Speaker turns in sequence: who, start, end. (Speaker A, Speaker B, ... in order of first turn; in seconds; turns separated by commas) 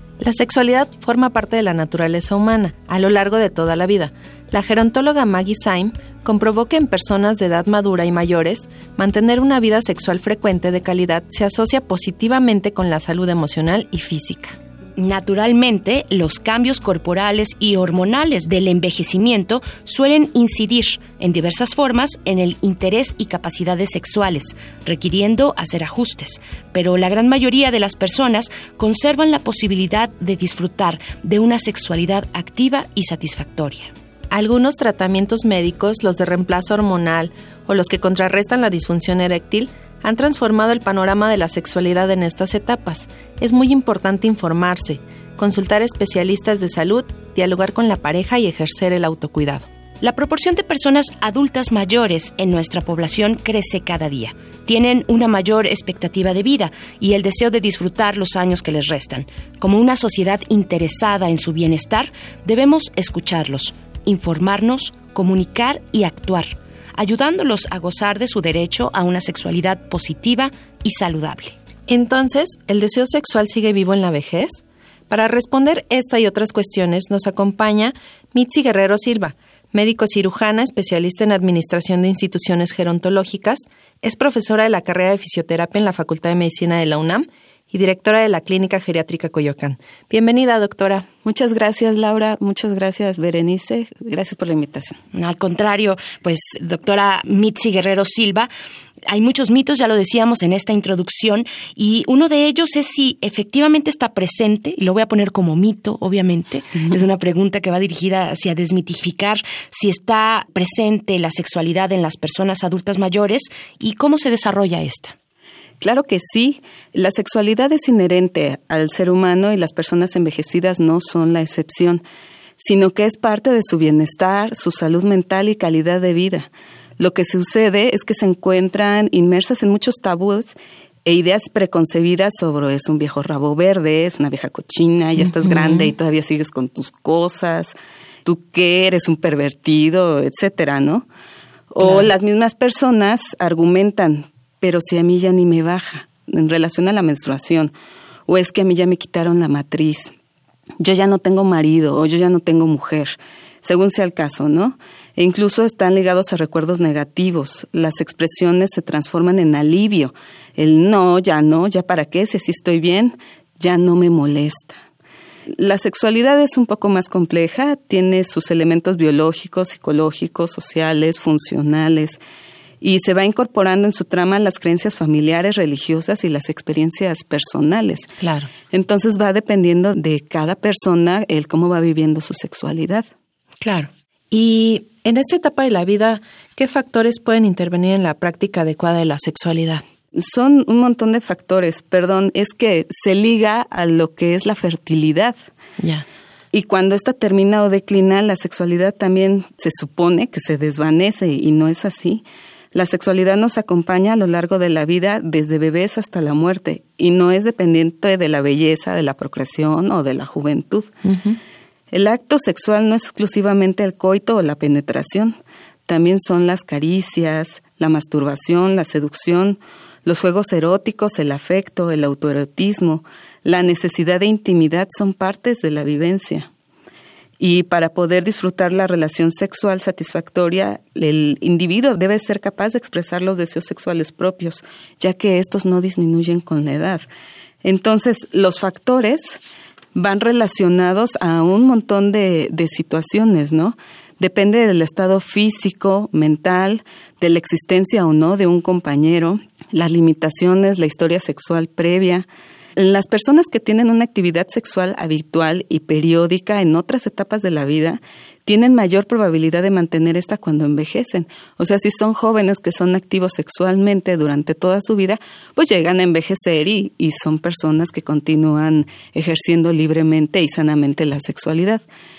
Speaker A: 0.2-14.6, Speaker B: 15.0-33.9, Speaker A: 34.3-49.7, Speaker B: 50.0-71.5, Speaker A: 71.9-91.1, Speaker C: 91.2-95.0, Speaker B: 95.1-98.5, Speaker B: 99.1-115.1, Speaker C: 115.8-122.0, Speaker C: 122.6-141.1, Speaker A: 135.4-135.9, Speaker C: 141.7-147.7, Speaker C: 148.3-150.1, Speaker C: 150.8-164.8, Speaker C: 165.6-172.2, Speaker C: 172.8-178.1, Speaker C: 178.7-183.1, Speaker B: 183.6-183.9, Speaker A: 184.3-189.8, Speaker C: 190.1-195.5, Speaker A: 195.8-196.1, Speaker C: 196.5-210.9, Speaker A: 211.1-211.4, Speaker C: 211.9-215.3, Speaker C: 215.9-226.5, Speaker C: 227.4-237.1, Speaker C: 237.6-239.4, Speaker C: 239.9-271.8